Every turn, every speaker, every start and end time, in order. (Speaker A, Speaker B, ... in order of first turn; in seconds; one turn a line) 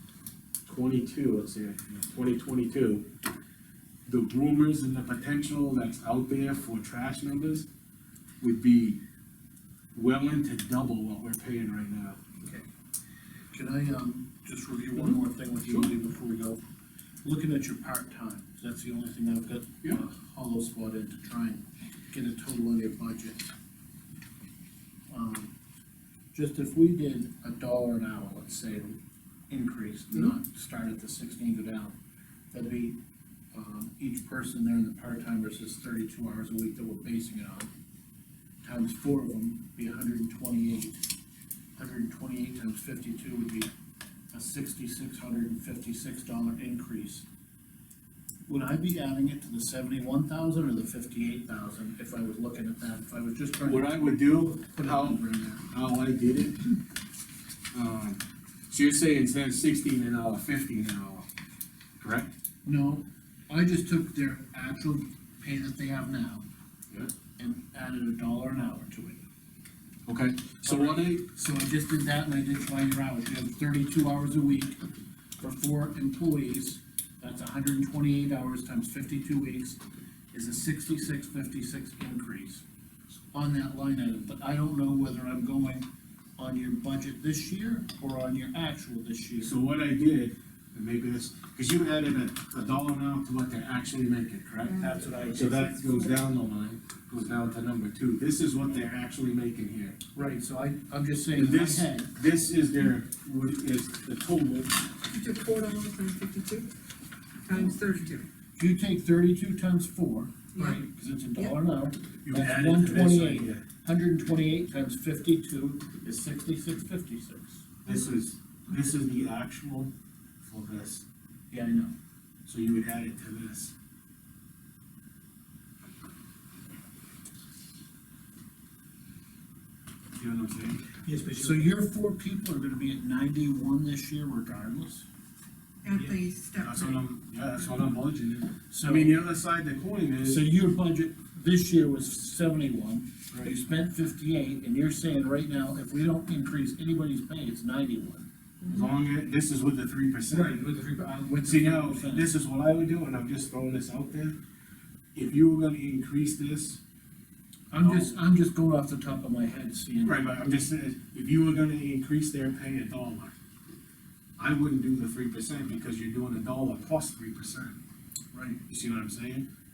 Speaker A: 0.7-3.1
Speaker A: 4.1-7.7
Speaker A: 8.4-9.0
Speaker A: 9.9-12.2
Speaker B: 13.5-16.6
Speaker A: 15.0-15.9
Speaker B: 17.2-23.5
Speaker B: 25.1-25.5
Speaker B: 26.3-29.0
Speaker B: 29.5-32.0
Speaker B: 32.5-33.0
Speaker B: 33.5-37.7
Speaker B: 38.6-41.0
Speaker B: 41.8-43.7
Speaker B: 44.3-47.2
Speaker B: 48.5-55.7
Speaker A: 53.7-56.6
Speaker A: 57.7-61.3
Speaker A: 62.0-62.3
Speaker B: 62.6-66.5
Speaker B: 67.4-69.2
Speaker A: 70.1-71.2
Speaker B: 70.6-74.8
Speaker B: 75.4-79.8
Speaker B: 80.3-82.6
Speaker B: 83.3-89.6
Speaker A: 89.4-100.0
Speaker C: 94.6-96.2
Speaker B: 94.8-95.5
Speaker B: 100.1-102.1
Speaker A: 101.3-104.7
Speaker C: 105.1-106.7
Speaker C: 107.5-108.3
Speaker B: 108.6-117.7
Speaker C: 110.5-110.8
Speaker A: 112.2-113.7
Speaker A: 117.8-119.9
Speaker A: 120.4-121.0
Speaker B: 121.5-121.9
Speaker A: 122.5-123.7
Speaker A: 130.2-130.9
Speaker D: 131.0-131.7
Speaker B: 131.3-135.1
Speaker C: 135.8-137.0
Speaker D: 135.9-136.2
Speaker A: 136.6-140.4
Speaker B: 138.7-139.2
Speaker B: 140.2-148.3
Speaker A: 148.7-150.7
Speaker D: 150.3-151.3
Speaker B: 151.1-152.3
Speaker A: 151.4-154.4
Speaker A: 155.2-156.8
Speaker B: 157.7-160.5
Speaker A: 157.8-158.2
Speaker A: 160.0-163.3
Speaker A: 164.4-167.8
Speaker B: 168.3-168.6
Speaker A: 168.6-169.5